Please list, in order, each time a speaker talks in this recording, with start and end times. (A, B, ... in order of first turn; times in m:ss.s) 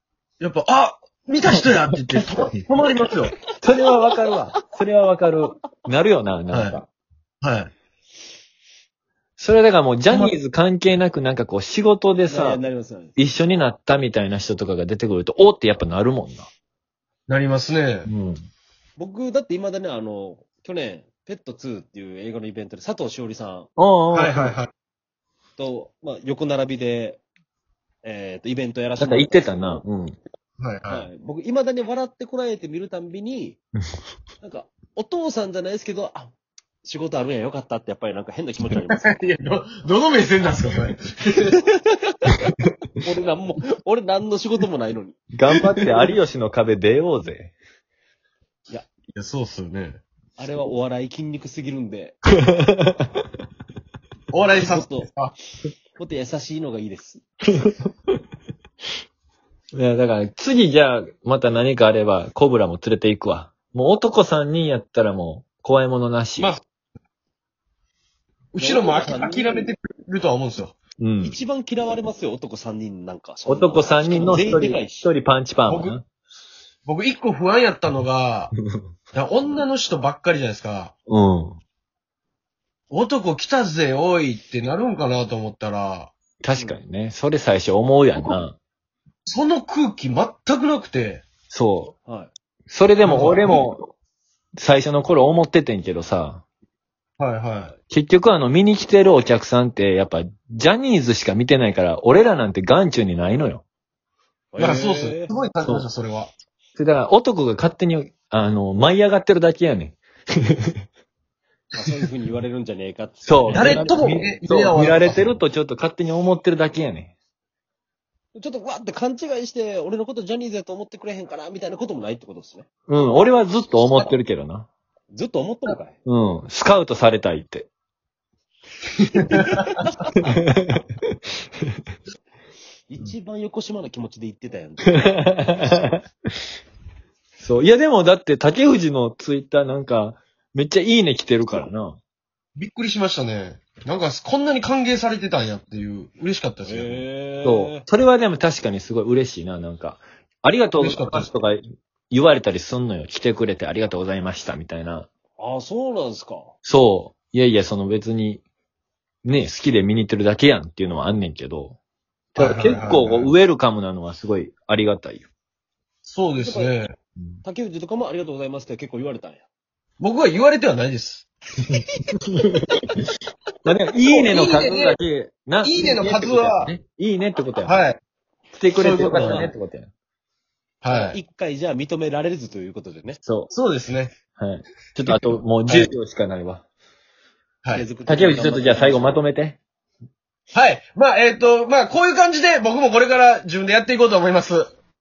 0:00.4-0:03.3 A
0:03.4-0:06.8 B
0:06.5-0:06.8 A
0:07.4-0:07.7 A
0:09.4-0:12.6 B
0:10.1-0:10.4 A
0:12.2-0:13.2 C
0:13.2-0:16.5 B
0:17.3-0:18.1 A
0:18.1-0:18.4 B
0:19.0-0:23.7 C
0:23.8-0:24.6 B
0:24.1-0:24.7 A
0:25.6-0:27.2 C
0:28.0-0:29.8 C
0:29.0-0:30.2 B
0:30.6-0:31.1 A
0:30.9-0:33.6 C
0:34.4-0:39.2 C
0:38.9-0:41.6 A
0:41.7-0:42.5 C
0:43.0-0:45.2 C
0:45.3-0:47.5 B
0:49.1-0:50.0 A
0:50.4-0:52.2 C
0:52.5-0:53.1 B
0:54.3-0:55.3 A
0:54.4-0:55.1 C
0:56.0-0:57.2 C
0:59.7-1:06.5 B
1:06.4-1:06.6 A
1:08.5-1:10.8 A
1:08.6-1:09.7 C
1:11.0-1:11.4 B
1:11.2-1:15.1 C
1:13.5-1:16.0 B
1:15.7-1:16.0 A
1:16.8-1:18.5 A
1:19.1-1:20.9 A
1:21.1-1:21.6 B
1:22.9-1:26.1 A
1:26.4-1:28.6 B
1:26.5-1:26.8 C
1:29.2-1:31.2 A
1:31.5-1:31.9 B
1:32.0-1:32.3 C
1:32.7-1:33.9 B
1:33.0-1:33.6 A
1:34.6-1:36.4 B
1:37.2-1:37.8 A
1:37.9-1:43.6 B
1:44.5-1:45.3 C
1:44.6-1:46.3 A
1:46.8-1:50.0 B
1:51.8-1:54.0 C
1:53.2-1:57.1 B
1:53.5-1:55.3 A
1:58.3-2:02.7 C
2:02.9-2:04.7 B
2:05.1-2:06.0 C
2:06.0-2:07.7 B
2:09.1-2:10.1 C
2:10.2-2:10.8 B
2:12.9-2:15.2 C
2:15.0-2:16.0 B
2:17.4-2:22.0 B
2:22.6-2:27.0 A
2:26.6-2:27.8 C
2:27.4-2:35.1 B
2:30.8-2:31.3 A
2:35.4-2:36.5 C
2:36.6-2:38.4 B
2:39.2-2:41.8 B
2:42.3-2:45.2 B
2:42.4-2:43.3 A
2:46.0-2:46.9 A
2:46.4-2:46.7 C
2:47.4-2:49.4 C
2:50.0-2:51.3 A
2:51.7-2:52.7 B
2:53.6-2:57.8 B
2:54.1-2:55.0 A
2:55.6-2:56.7 A
2:57.6-2:58.0 A
2:58.5-2:59.9 B
2:58.7-2:59.5 A
3:00.8-3:01.2 A
3:00.9-3:03.2 C
3:03.2-3:03.5 B
3:03.5-3:04.1 A
3:04.4-3:06.6 B
3:05.1-3:05.9 A
3:07.7-3:09.2 C
3:08.1-3:09.6 B
3:10.5-3:14.7 A